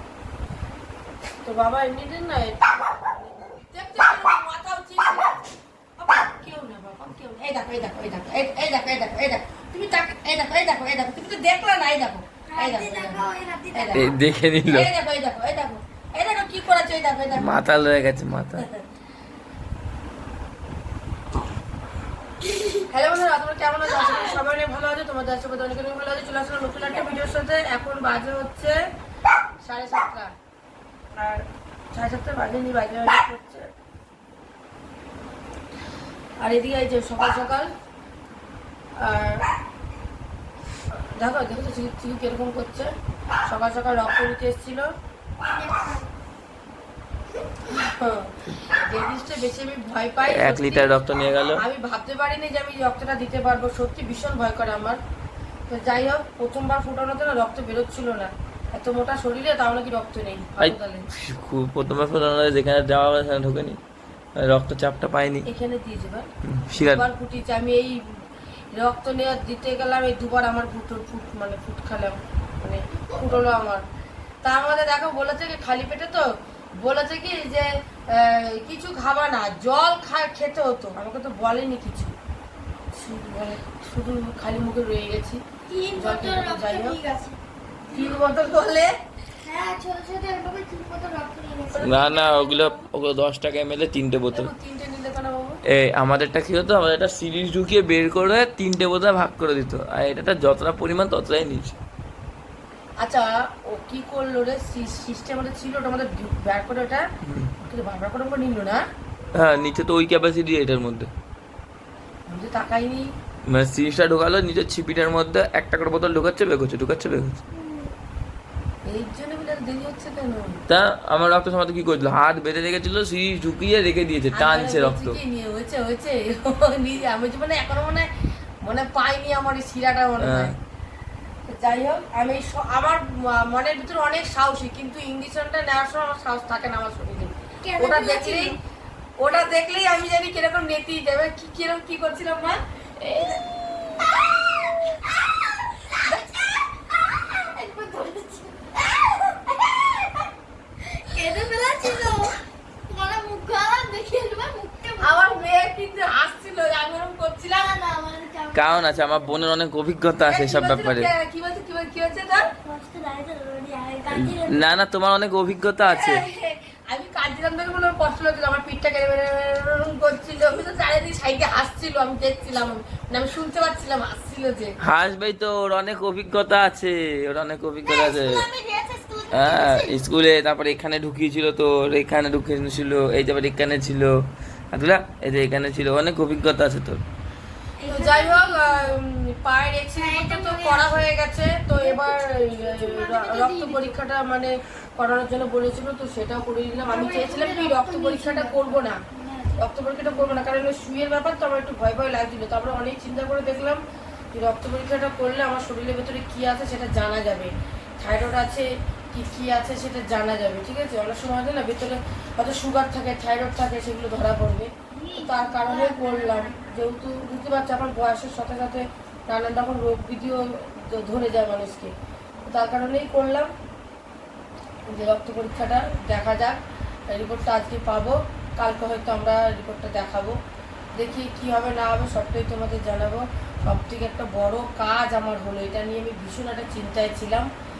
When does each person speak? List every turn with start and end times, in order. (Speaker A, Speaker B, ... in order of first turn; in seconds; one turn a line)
Speaker A: 1.4-2.8
Speaker A: 3.5-5.4
Speaker A: 6.0-14.1
Speaker B: 12.5-14.1
Speaker C: 13.9-14.9
Speaker A: 14.7-17.6
Speaker C: 17.4-18.6
Speaker A: 18.5-18.8
Speaker B: 22.4-22.9
Speaker A: 22.9-28.8
Speaker B: 23.9-24.4
Speaker B: 26.9-27.2
Speaker A: 29.6-30.3
Speaker A: 31.2-33.7
Speaker A: 36.4-37.7
Speaker A: 39.0-39.5
Speaker A: 41.2-42.9
Speaker A: 43.5-44.9
Speaker B: 45.4-46.1
Speaker A: 47.7-51.0
Speaker C: 50.3-51.6
Speaker A: 51.6-55.0
Speaker A: 55.7-61.1
Speaker C: 60.6-63.8
Speaker C: 64.4-65.4
Speaker A: 65.5-66.3
Speaker C: 66.5-67.0
Speaker A: 66.8-68.0
Speaker A: 68.7-73.8
Speaker A: 74.4-82.1
Speaker A: 82.9-85.4
Speaker B: 85.7-87.4
Speaker A: 86.0-87.0
Speaker A: 87.9-88.9
Speaker B: 87.9-88.2
Speaker B: 89.4-92.8
Speaker C: 91.8-94.5
Speaker A: 94.3-95.6
Speaker C: 95.7-101.8
Speaker A: 103.0-107.0
Speaker C: 107.2-107.5
Speaker A: 107.7-108.8
Speaker C: 109.3-111.1
Speaker A: 112.3-113.1
Speaker C: 113.5-117.4
Speaker A: 118.9-120.6
Speaker C: 120.7-125.2
Speaker A: 124.3-128.1
Speaker A: 128.6-130.6
Speaker C: 130.2-130.5
Speaker A: 131.5-138.6
Speaker B: 137.6-138.6
Speaker A: 139.2-142.6
Speaker B: 144.0-145.3
Speaker B: 146.1-150.3
Speaker B: 151.1-152.3
Speaker B: 152.9-155.5
Speaker A: 155.0-157.7
Speaker B: 157.5-159.4
Speaker C: 158.5-161.1
Speaker A: 160.3-162.5
Speaker B: 162.5-164.8
Speaker C: 164.1-166.2
Speaker A: 165.9-174.8
Speaker C: 174.8-178.4
Speaker B: 177.8-180.0
Speaker C: 179.3-184.2
Speaker C: 184.7-187.0
Speaker B: 187.8-189.0
Speaker A: 187.9-199.0
Speaker B: 189.9-191.1
Speaker B: 191.8-194.0
Speaker B: 196.8-200.4
Speaker A: 199.6-203.8
Speaker A: 204.3-221.9
Speaker B: 214.9-216.7
Speaker A: 222.5-223.5
Speaker A: 224.9-230.4
Speaker A: 231.0-237.5